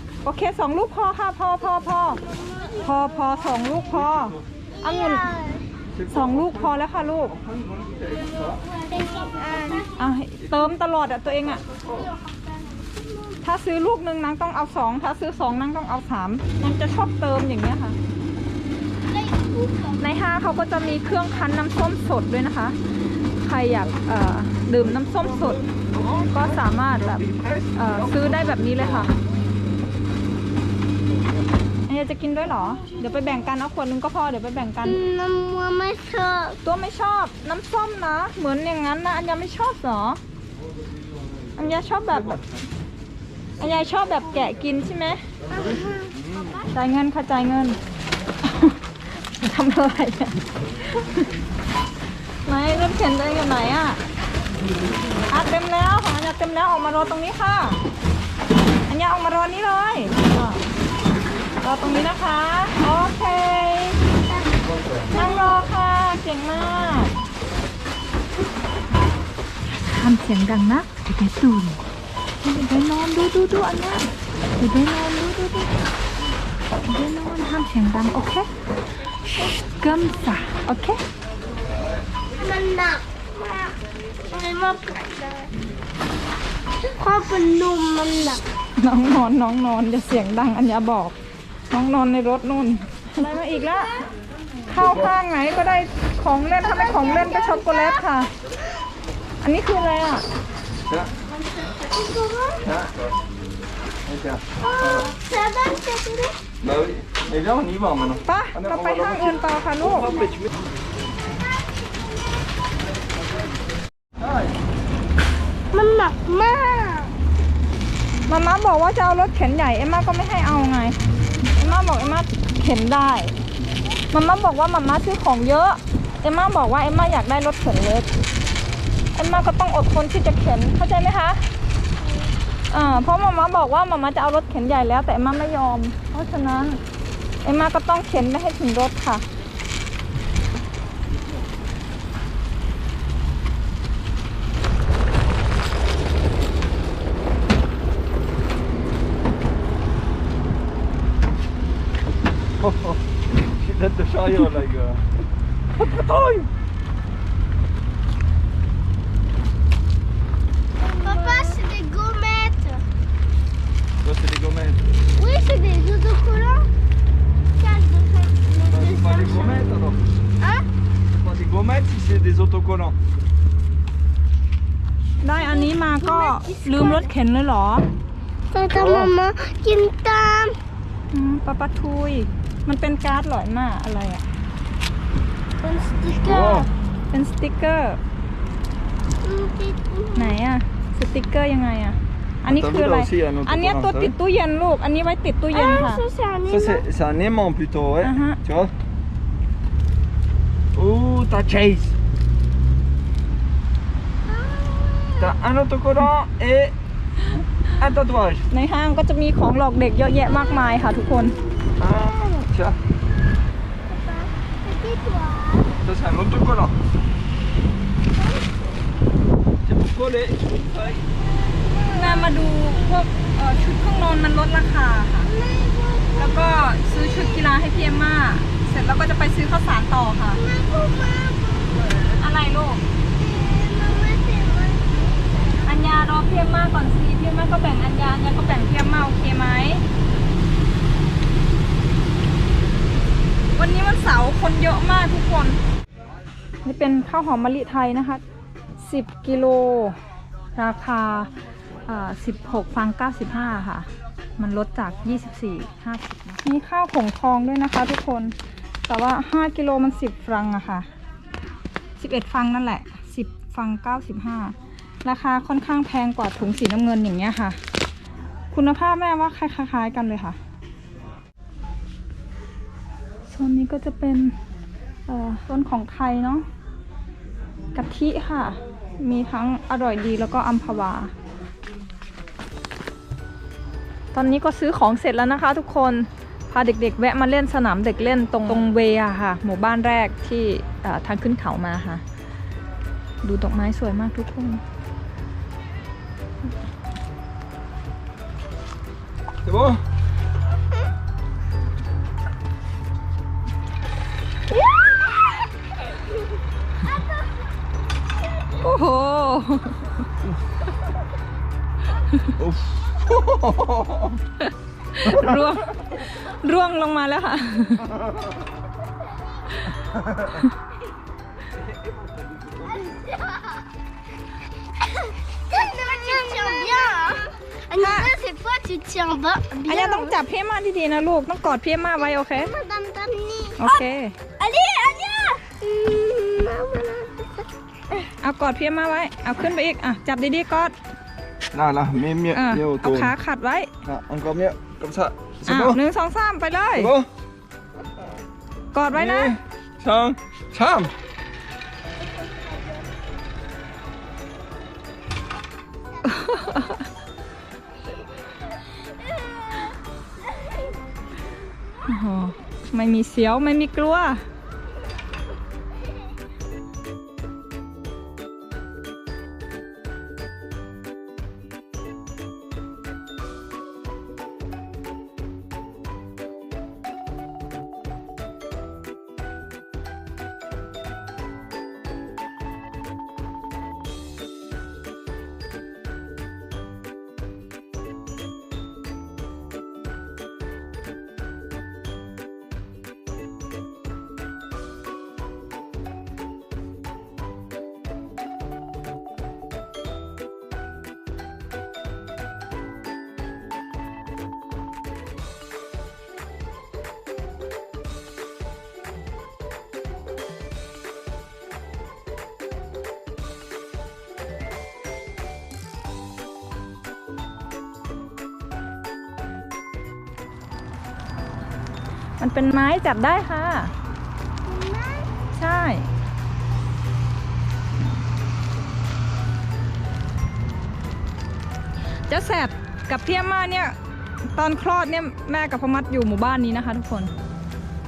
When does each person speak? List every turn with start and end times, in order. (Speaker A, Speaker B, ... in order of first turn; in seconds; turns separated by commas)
Speaker A: 0.2-2.2, Speaker B: 2.2-3.0, Speaker A: 2.8-5.3, Speaker C: 3.9-4.4, Speaker B: 4.7-5.7, Speaker C: 6.0-8.6, Speaker A: 6.1-7.4, Speaker B: 8.3-9.9, Speaker A: 9.8-11.6, Speaker B: 11.8-13.4, Speaker A: 13.4-18.0, Speaker B: 19.0-20.0, Speaker A: 20.0-22.8, Speaker A: 23.4-29.1, Speaker C: 25.0-29.1, Speaker A: 31.9-35.0, Speaker B: 34.9-36.6, Speaker A: 36.6-40.2, Speaker A: 41.6-42.4, Speaker C: 42.2-42.5, Speaker A: 43.6-45.3, Speaker B: 45.5-46.6, Speaker C: 46.2-46.5, Speaker A: 46.7-47.8, Speaker A: 48.4-51.3, Speaker A: 52.5-54.0, Speaker A: 55.3-57.8, Speaker A: 58.9-60.6, Speaker A: 61.6-64.0, Speaker C: 64.7-65.1, Speaker A: 65.1-67.2, Speaker A: 69.7-71.9, Speaker A: 72.4-75.7, Speaker A: 76.9-78.5, Speaker A: 79.8-81.0, Speaker B: 82.4-85.5, Speaker B: 86.8-88.4, Speaker A: 88.8-91.2, Speaker A: 91.7-94.0, Speaker B: 93.4-94.1, Speaker A: 94.7-98.3, Speaker C: 94.8-95.1, Speaker B: 96.6-98.0, Speaker A: 99.4-100.2, Speaker B: 101.3-102.7, Speaker C: 102.6-103.0, Speaker C: 104.0-105.1, Speaker B: 104.6-106.4, Speaker C: 106.6-110.4, Speaker A: 108.3-110.2, Speaker C: 114.2-114.6, Speaker B: 115.7-117.1, Speaker A: 118.3-121.0, Speaker A: 121.5-123.3, Speaker A: 124.1-128.1, Speaker A: 129.2-131.4, Speaker A: 132.7-136.8, Speaker A: 137.4-139.2, Speaker C: 152.6-155.1, Speaker C: 155.8-156.5, Speaker B: 160.8-162.8, Speaker C: 164.0-164.8, Speaker B: 165.2-166.7, Speaker B: 167.6-169.6, Speaker C: 168.7-170.0, Speaker B: 170.4-170.7, Speaker C: 171.1-173.0, Speaker A: 175.2-177.9, Speaker B: 175.4-177.1, Speaker B: 178.5-180.6, Speaker C: 178.7-179.1, Speaker A: 181.1-184.2, Speaker B: 185.6-186.7, Speaker C: 186.2-186.7, Speaker A: 187.1-188.0, Speaker B: 189.2-190.4, Speaker A: 190.2-196.0, Speaker C: 192.5-194.2, Speaker B: 195.5-196.8, Speaker C: 196.5-198.7, Speaker A: 198.0-198.4, Speaker C: 200.8-202.0, Speaker B: 204.3-205.3, Speaker C: 205.2-206.8, Speaker C: 207.8-208.5, Speaker A: 208.5-211.4, Speaker C: 211.8-212.8, Speaker B: 213.9-215.7, Speaker C: 215.8-216.8, Speaker B: 218.2-218.6, Speaker C: 219.7-221.0, Speaker B: 221.8-222.3, Speaker A: 221.9-225.3, Speaker B: 225.3-226.7, Speaker A: 226.2-230.4, Speaker B: 230.4-231.7, Speaker C: 231.7-232.2, Speaker A: 232.2-232.8, Speaker B: 233.4-235.7, Speaker A: 235.6-239.8, Speaker A: 243.6-245.6, Speaker A: 246.6-248.2, Speaker A: 248.8-250.0, Speaker A: 250.6-251.3, Speaker A: 251.9-258.4, Speaker A: 258.9-260.9, Speaker A: 262.0-267.6, Speaker A: 268.5-270.4, Speaker A: 273.3-274.4, Speaker A: 275.1-276.5, Speaker A: 277.8-281.1, Speaker A: 284.1-292.0, Speaker A: 293.2-294.6, Speaker C: 299.4-299.8, Speaker B: 306.9-307.3, Speaker A: 308.6-310.1, Speaker C: 312.4-314.2, Speaker A: 314.4-317.9, Speaker C: 315.1-315.4, Speaker C: 321.4-322.9, Speaker B: 322.7-323.6, Speaker B: 324.9-330.2, Speaker A: 327.8-328.1, Speaker A: 329.6-332.5, Speaker B: 332.3-333.8, Speaker A: 333.6-334.1, Speaker B: 334.4-338.0, Speaker A: 338.2-340.8, Speaker C: 341.5-343.1, Speaker A: 342.3-343.7, Speaker C: 343.8-345.8, Speaker A: 345.5-346.9, Speaker C: 346.8-347.1, Speaker A: 348.7-349.4, Speaker C: 348.9-350.9, Speaker B: 352.4-352.6, Speaker A: 356.0-356.9, Speaker B: 358.7-359.8, Speaker B: 360.3-360.7, Speaker A: 361.9-364.2, Speaker A: 422.2-423.7, Speaker B: 424.4-425.1, Speaker A: 425.3-425.9, Speaker A: 432.1-433.8, Speaker A: 434.3-437.1